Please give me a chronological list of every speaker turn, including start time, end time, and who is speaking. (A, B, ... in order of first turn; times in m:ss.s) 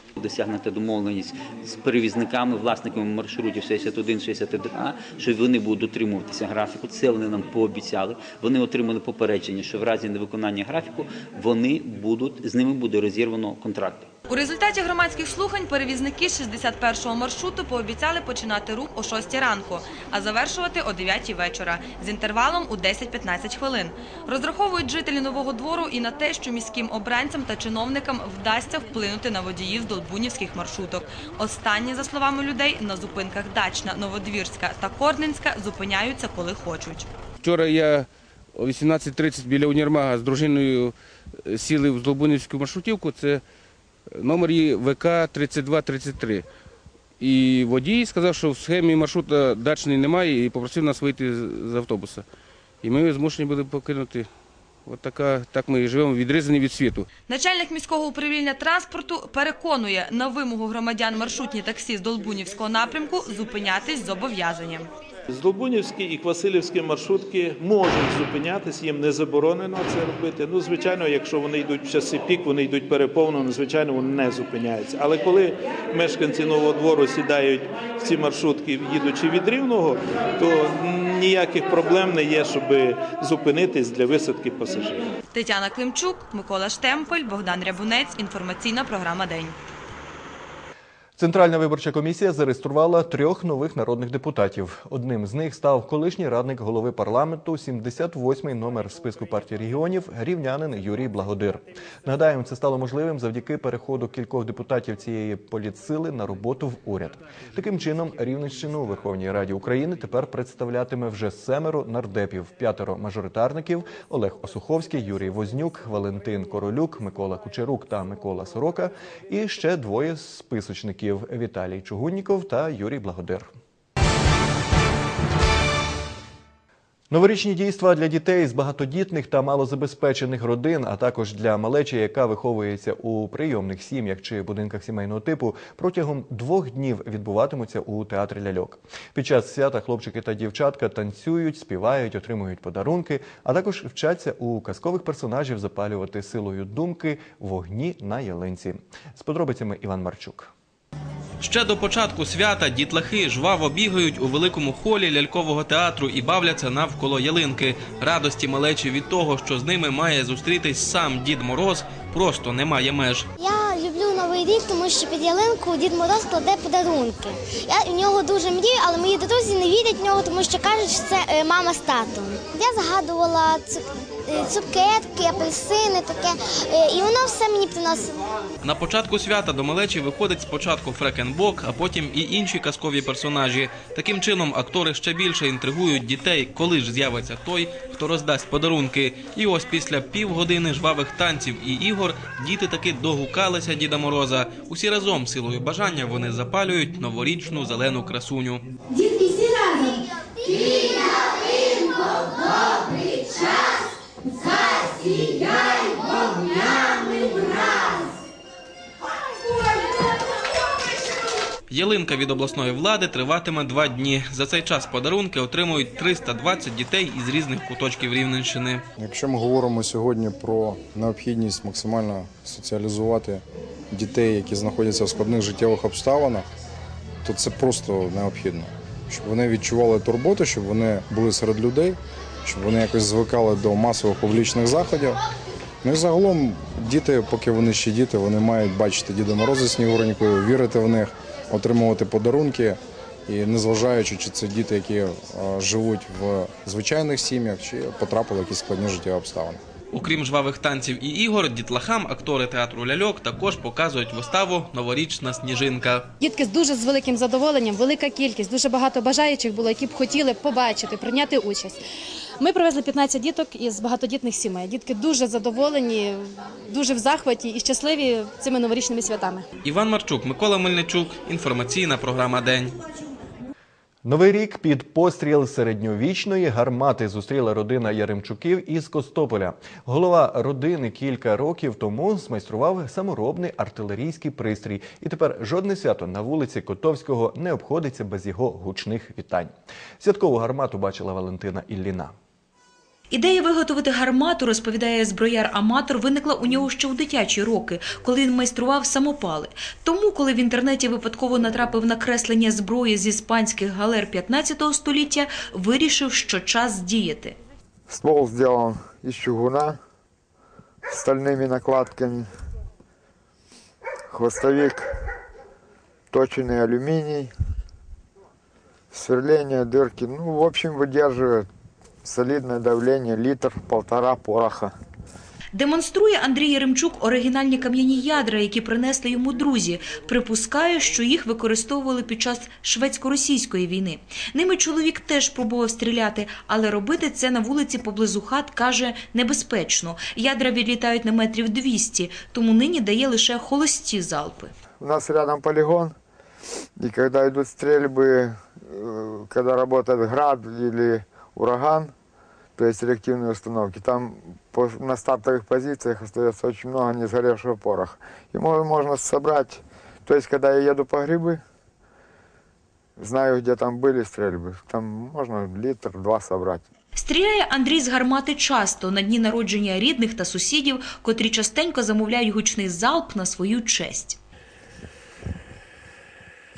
0:00.2-0:14.1 A
0:14.3-0:37.1 B
0:37.4-0:40.9 C
0:41.4-0:43.4 C
0:44.2-0:46.4 C
0:47.2-0:52.2 C
0:52.8-0:54.3 C
0:54.9-0:57.1 C
0:57.3-1:04.9 B
1:05.3-1:25.1 D
1:25.3-1:29.6 B
1:31.2-2:03.5 E
2:07.1-2:30.5 E
2:31.4-2:43.3 F
2:43.4-2:58.2 G
2:58.6-3:18.7 F
3:31.7-3:38.8 F
3:39.0-3:46.4 H
3:47.2-3:55.2 H
3:55.8-4:09.6 H
4:09.9-4:16.1 F
4:16.2-4:21.8 I
4:22.4-4:29.4 I
4:29.6-4:32.8 F
4:34.0-4:52.1 E
4:53.2-5:07.2 J
5:07.9-5:09.8 K
5:10.9-5:12.3 K
5:14.1-5:14.9 K
5:16.1-5:17.3 K
5:18.9-5:21.5 K
5:22.0-5:24.7 K
5:25.7-5:44.4 J
5:27.5-5:28.0 B
5:30.4-5:30.9 B
5:32.5-5:33.2 B
5:36.4-5:37.2 B
5:42.8-5:43.5 B
5:44.8-5:46.0 K
5:46.8-5:51.9 K
5:52.6-6:01.4 K
6:03.0-6:06.6 K
6:07.1-6:14.0 J